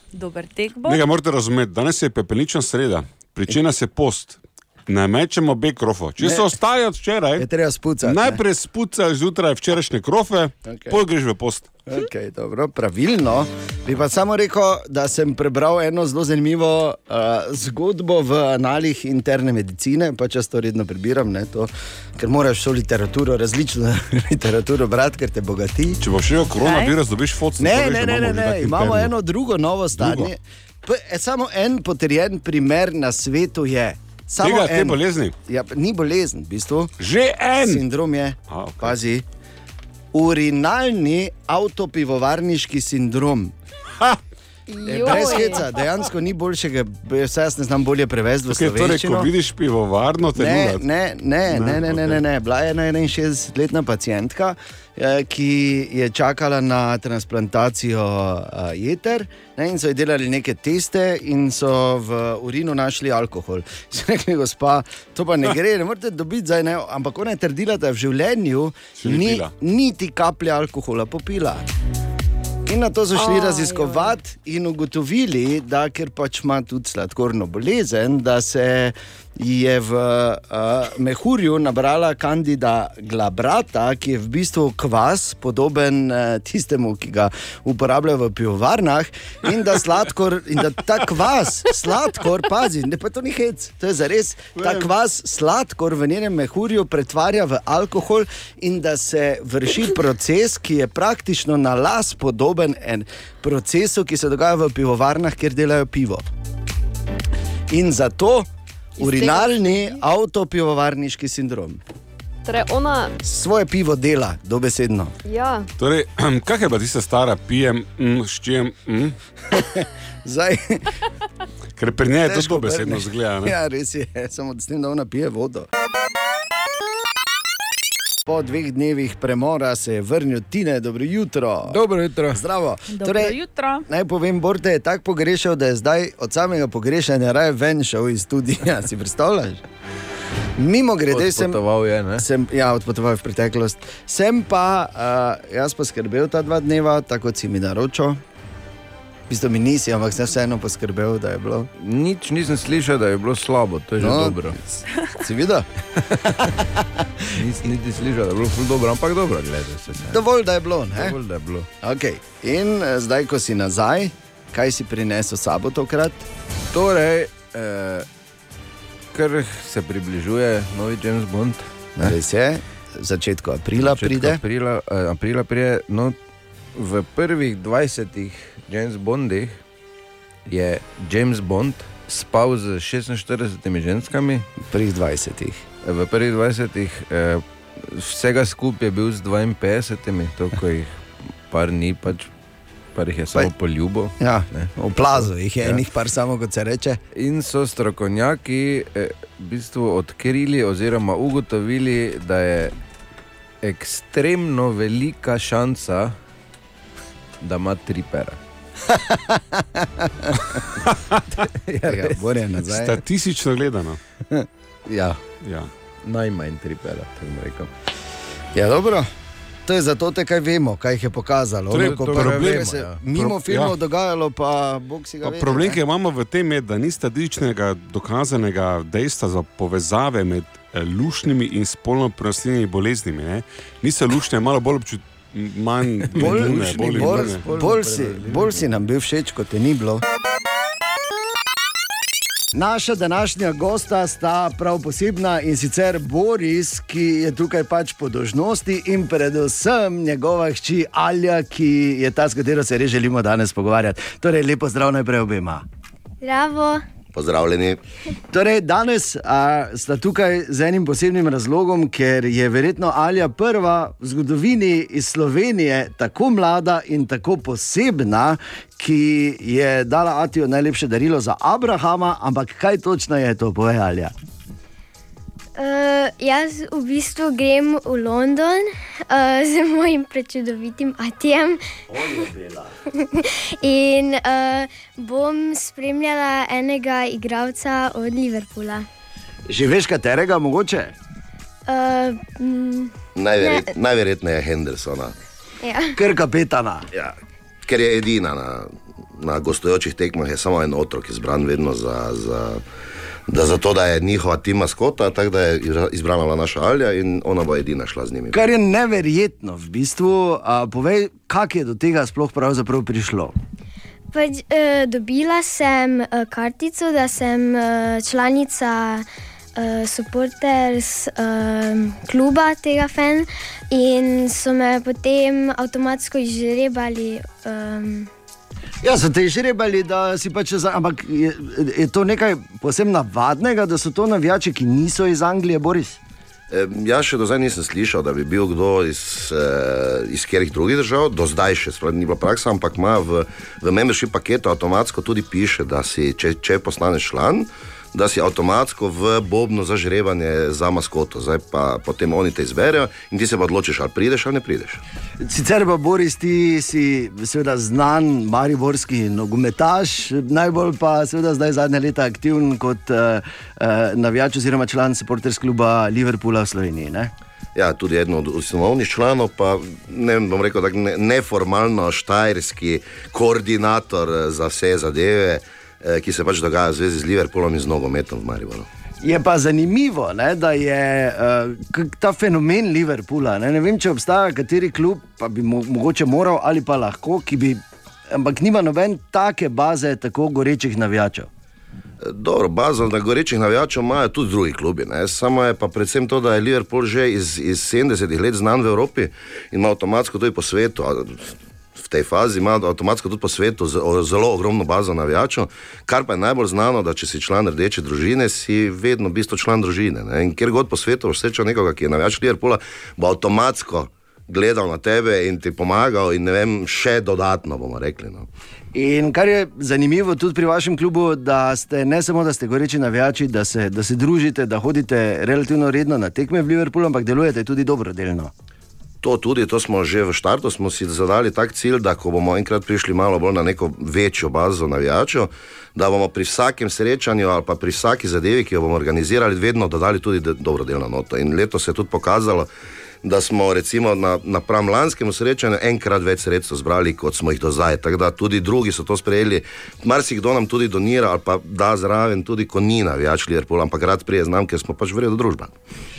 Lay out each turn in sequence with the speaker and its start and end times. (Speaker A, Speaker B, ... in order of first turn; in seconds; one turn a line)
Speaker A: 0.1-1.0
Speaker B: 0.9-7.5
Speaker C: 6.2-6.5
Speaker C: 7.4-8.4
Speaker B: 8.0-11.8
Speaker C: 10.7-11.0
Speaker C: 11.9-26.0
Speaker B: 26.0-29.1
Speaker A: 26.6-26.9
Speaker C: 27.6-37.0
Speaker B: 29.9-30.3
Speaker B: 34.4-35.3
Speaker B: 37.0-37.8
Speaker C: 37.6-39.3
Speaker B: 38.5-39.0
Speaker C: 40.1-43.5
Speaker D: 44.7-45.7
Speaker C: 44.8-49.3
Speaker B: 48.5-50.8
Speaker C: 50.4-71.7
Speaker B: 51.5-52.2
Speaker B: 69.0-69.5
Speaker C: 72.7-106.2
Speaker D: 73.3-74.1
Speaker A: 73.3-73.7
Speaker B: 94.6-94.9
Speaker C: 107.7-111.8
Speaker D: 109.0-109.9
Speaker D: 112.5-113.2
Speaker C: 113.2-115.1
Speaker D: 115.2-115.7
Speaker B: 115.8-119.2
Speaker C: 119.5-121.0
Speaker B: 121.8-123.5
Speaker C: 122.2-125.7
Speaker C: 128.3-131.8
Speaker E: 131.7-132.4
Speaker C: 132.3-139.6
Speaker A: 132.9-133.9
Speaker C: 140.6-141.6
Speaker E: 141.1-142.3
Speaker C: 142.2-148.2
Speaker C: 149.3-151.7
Speaker E: 151.8-154.6
Speaker C: 154.0-157.2
Speaker E: 157.3-160.3
Speaker C: 160.1-161.2
Speaker E: 160.9-161.7
Speaker C: 161.8-166.3
Speaker E: 166.7-168.1
Speaker E: 169.1-171.9
Speaker C: 172.0-174.4
Speaker E: 173.8-176.2
Speaker E: 176.8-179.6
Speaker E: 180.5-184.6
Speaker C: 184.6-185.7
Speaker E: 185.8-190.9
Speaker E: 191.5-192.3
Speaker E: 192.9-194.7
Speaker C: 194.2-197.0
Speaker E: 197.2-202.7
Speaker E: 203.6-206.2
Speaker E: 207.4-208.4
Speaker C: 208.8-210.6
Speaker E: 211.7-212.2
Speaker C: 211.8-213.0
Speaker B: 212.7-214.0
Speaker C: 214.3-215.2
Speaker B: 215.4-215.7
Speaker E: 216.0-217.7
Speaker C: 218.5-219.1
Speaker C: 219.7-225.8
Speaker B: 221.7-222.7
Speaker E: 221.7-223.3
Speaker B: 223.3-223.7
Speaker B: 225.2-237.5
Speaker C: 236.2-240.0
Speaker E: 236.2-238.7
Speaker C: 242.5-255.6
Speaker F: 256.2-256.8
Speaker G: 257.1-257.8
Speaker C: 258.3-274.1
Speaker F: 275.6-282.3
Speaker C: 281.9-282.7
Speaker F: 282.9-288.9
Speaker C: 289.5-290.9
Speaker F: 291.7-293.7
Speaker G: 293.1-295.1
Speaker F: 295.6-296.0
Speaker C: 295.9-296.9
Speaker G: 297.7-302.6
Speaker G: 303.3-308.4
Speaker C: 308.3-313.3
Speaker F: 314.1-328.1
Speaker C: 328.8-336.0
Speaker G: 336.5-354.8
Speaker C: 355.2-367.1
Speaker G: 367.6-378.7
Speaker C: 379.0-391.3
Speaker G: 392.0-418.3
Speaker C: 418.7-428.3
Speaker G: 429.0-442.5
Speaker G: 443.0-455.5